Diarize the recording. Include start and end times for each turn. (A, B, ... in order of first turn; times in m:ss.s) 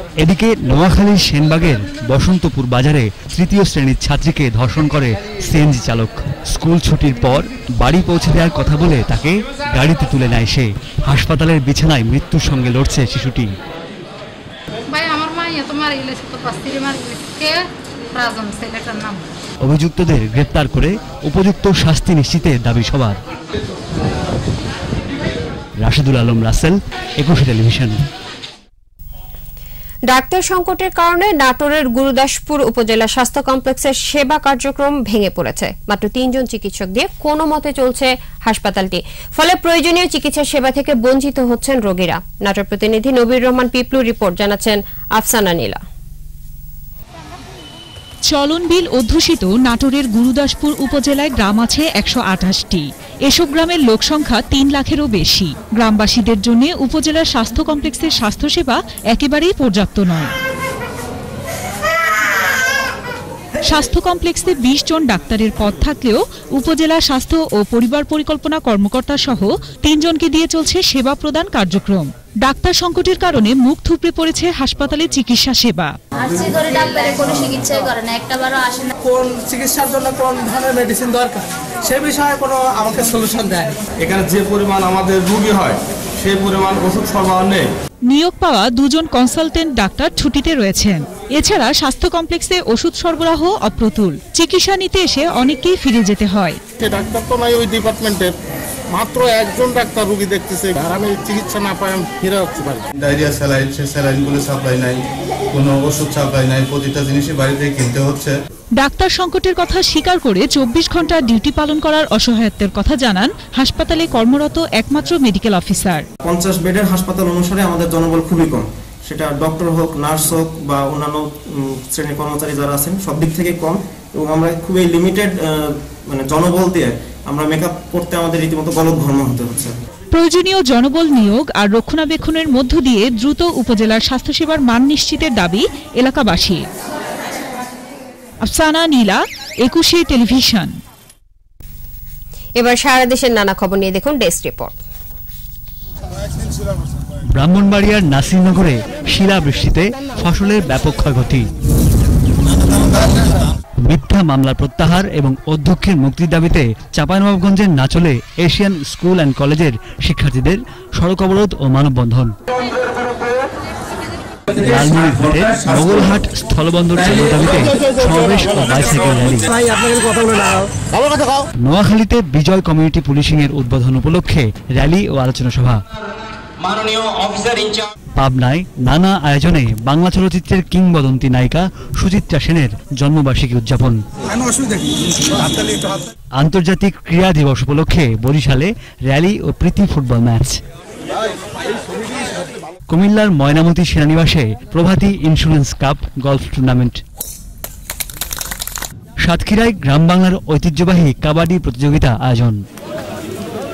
0:00.2-0:13.5 A
0:14.9-0:19.3 B
0:19.6-0:23.2 A
0:25.8-0:28.0 A
0:30.1-0:45.8 C
0:48.2-1:00.3 D
1:03.6-1:16.0 D
1:16.2-1:18.9 E
1:19.0-1:23.8 F
1:24.0-1:27.7 G
1:28.1-1:36.6 D
1:36.8-1:38.3 H
1:38.9-1:42.8 H
1:43.0-1:45.0 I
1:45.5-1:48.3 I
1:48.8-1:56.0 D
1:56.2-2:09.8 J
2:10.1-2:16.6 D
2:18.4-2:20.8 D
2:22.6-2:24.8 C
2:27.4-2:31.4 A
2:33.8-2:42.3 A
2:44.5-2:49.5 A
2:51.6-2:55.8 A
2:58.2-3:04.0 A
3:06.4-3:10.6 A
3:12.9-3:17.0 A
3:19.2-3:22.6 A